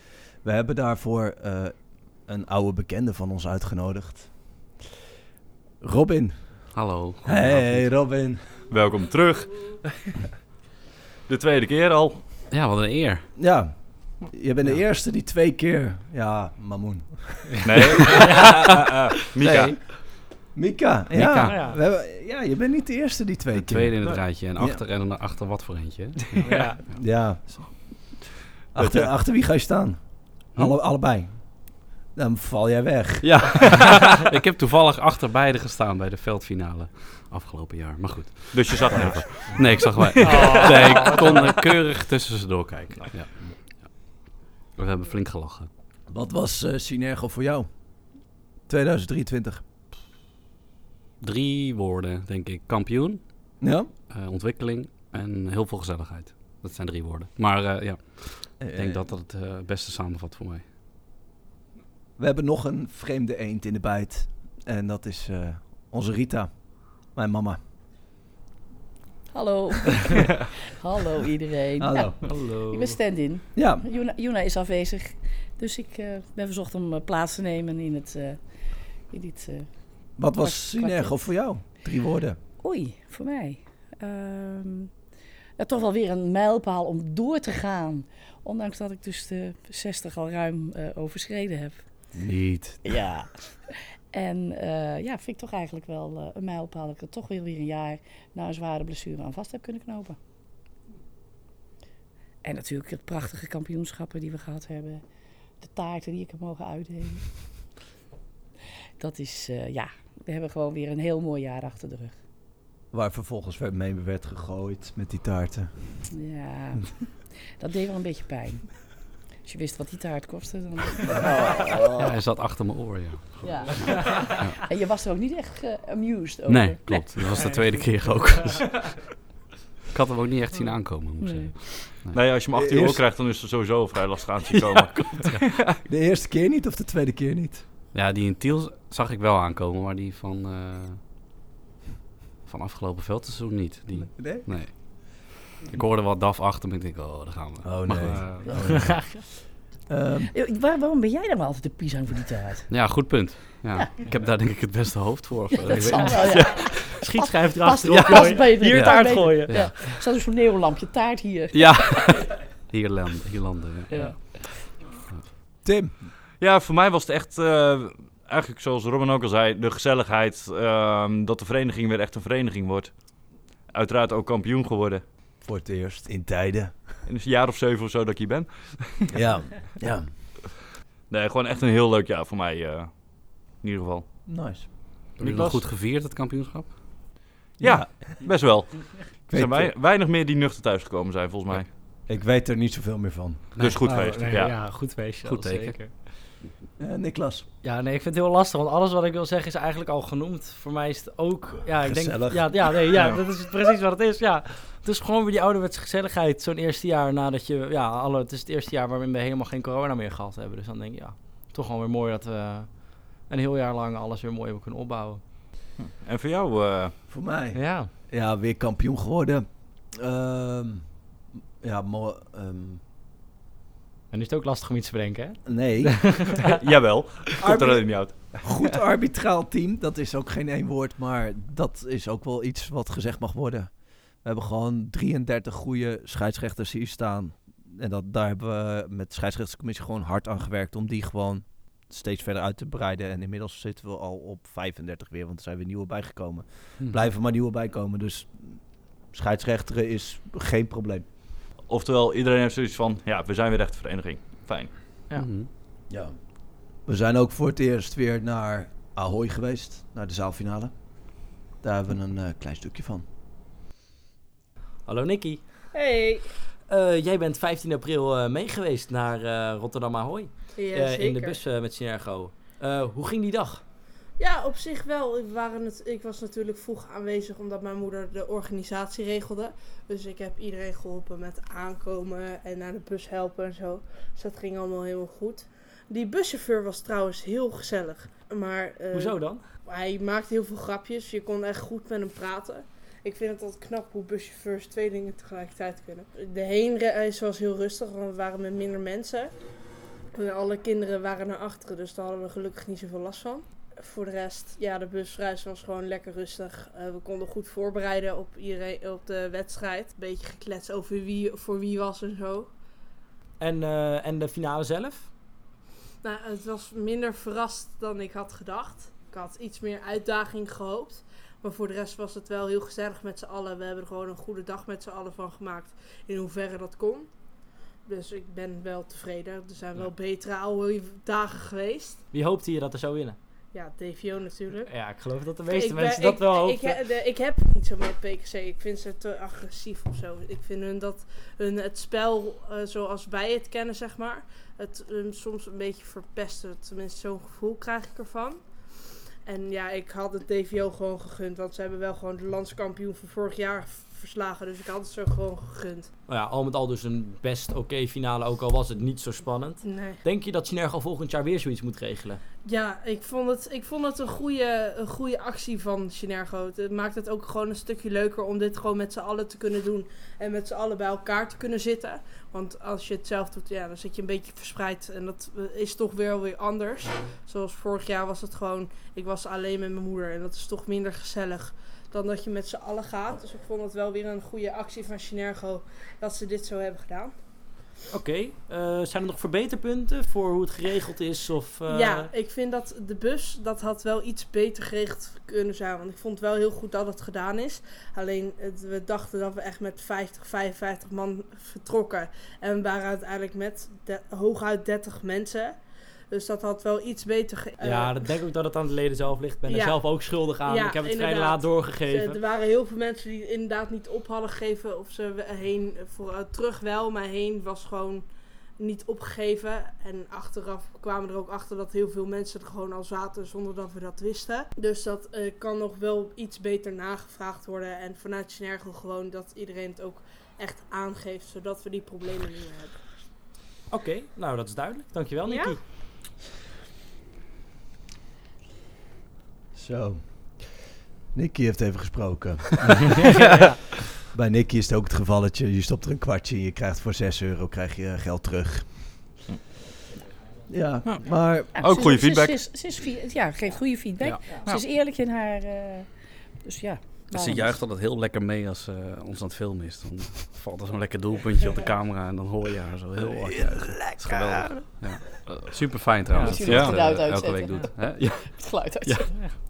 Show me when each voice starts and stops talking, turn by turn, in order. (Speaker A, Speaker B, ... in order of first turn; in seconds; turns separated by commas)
Speaker A: 0.4-1.7, Speaker A: 2.3-4.6, Speaker A: 5.8-6.7, Speaker B: 6.7-7.9, Speaker A: 7.2-8.5, Speaker C: 8.7-9.9, Speaker C: 11.3-12.2, Speaker B: 12.5-13.3, Speaker A: 13.4-18.5, Speaker C: 17.6-19.8, Speaker D: 18.0-18.8, Speaker A: 19.4-19.8, Speaker A: 20.5-24.8, Speaker B: 21.1-21.6, Speaker D: 21.4-21.8, Speaker B: 23.6-26.6, Speaker D: 26.4-26.8, Speaker A: 26.9-28.2, Speaker A: 28.7-33.7, Speaker C: 28.8-29.1, Speaker B: 33.2-43.6, Speaker C: 38.5-39.4, Speaker D: 39.0-41.7, Speaker B: 44.8-45.7, Speaker A: 46.1-47.7, Speaker A: 48.7-49.6, Speaker B: 51.2-53.2, Speaker A: 53.6-53.9, Speaker B: 54.1-60.6, Speaker A: 58.6-59.1, Speaker A: 62.2-67.6, Speaker E: 69.3-78.4, Speaker A: 71.8-72.3, Speaker D: 72.2-73.0, Speaker A: 73.5-73.8, Speaker E: 79.1-79.7, Speaker A: 80.2-82.4, Speaker E: 80.3-81.3, Speaker E: 82.6-84.9, Speaker E: 85.6-91.8, Speaker A: 92.1-93.0, Speaker E: 92.8-100.2, Speaker E: 102.4-105.0, Speaker E: 105.6-107.3, Speaker E: 109.0-112.1, Speaker A: 112.9-116.0, Speaker E: 116.1-117.1, Speaker E: 117.6-118.9, Speaker E: 119.4-121.5, Speaker A: 121.2-122.1, Speaker B: 122.0-124.6, Speaker E: 123.4-127.1, Speaker B: 126.5-129.0, Speaker D: 127.3-127.8, Speaker B: 129.9-132.2, Speaker E: 131.2-131.5, Speaker C: 132.1-135.7, Speaker A: 132.5-133.0, Speaker D: 134.5-135.4, Speaker A: 135.8-137.6, Speaker B: 137.9-141.0, Speaker B: 142.5-148.7, Speaker A: 144.0-144.5, Speaker A: 147.6-149.2, Speaker D: 148.4-149.2, Speaker A: 149.9-150.3, Speaker E: 150.3-152.7, Speaker B: 152.7-156.8, Speaker E: 155.6-161.8, Speaker D: 155.7-159.8, Speaker B: 158.7-159.7, Speaker B: 161.5-165.2, Speaker D: 163.9-164.2, Speaker A: 165.6-165.9, Speaker C: 166.4-173.1, Speaker C: 173.6-175.0, Speaker A: 175.4-176.9, Speaker C: 177.1-179.1, Speaker A: 179.1-180.1, Speaker C: 181.1-184.1, Speaker A: 184.3-184.7, Speaker D: 185.2-185.6, Speaker B: 185.2-187.0, Speaker C: 185.2-185.5, Speaker A: 187.6-187.9, Speaker C: 187.6-191.7, Speaker A: 189.3-189.7, Speaker A: 191.6-193.5, Speaker B: 193.6-193.8, Speaker C: 193.6-194.6, Speaker D: 193.8-196.0, Speaker B: 195.2-195.8, Speaker A: 196.8-197.5, Speaker D: 197.6-215.4, Speaker A: 201.8-203.2, Speaker C: 215.8-217.0, Speaker A: 217.1-220.9, Speaker D: 217.5-217.9, Speaker A: 221.6-222.8, Speaker D: 224.1-226.6, Speaker A: 225.4-226.1, Speaker C: 226.5-228.3, Speaker A: 227.4-233.7, Speaker A: 234.2-251.1, Speaker C: 251.7-254.8, Speaker B: 255.2-255.5, Speaker A: 255.9-256.1, Speaker A: 256.8-263.1, Speaker D: 264.9-265.4, Speaker F: 265.7-266.2, Speaker D: 266.7-273.6, Speaker F: 270.6-271.4, Speaker F: 274.2-299.3, Speaker D: 288.9-289.4, Speaker F: 300.1-312.5, Speaker D: 313.4-315.1, Speaker F: 316.0-327.1, Speaker F: 327.9-332.0, Speaker D: 332.1-333.2, Speaker F: 333.5-334.7, Speaker D: 334.7-336.8, Speaker F: 335.4-348.4, Speaker F: 349.3-355.9, Speaker D: 356.1-362.2, Speaker F: 359.6-360.0, Speaker F: 362.5-387.1, Speaker D: 387.9-392.1, Speaker F: 391.7-405.6, Speaker F: 406.1-408.1, Speaker D: 407.6-412.2, Speaker F: 409.5-418.1, Speaker F: 418.6-432.8, Speaker D: 433.7-435.6, Speaker F: 435.3-435.6, Speaker A: 439.5-440.6, Speaker A: 441.1-443.3, Speaker D: 443.0-443.6, Speaker A: 444.1-449.1, Speaker A: 450.5-451.6, Speaker E: 451.6-455.9, Speaker C: 451.6-452.4, Speaker E: 456.4-457.5, Speaker B: 457.1-469.0, Speaker A: 463.0-464.6, Speaker D: 466.1-466.9, Speaker E: 466.2-469.1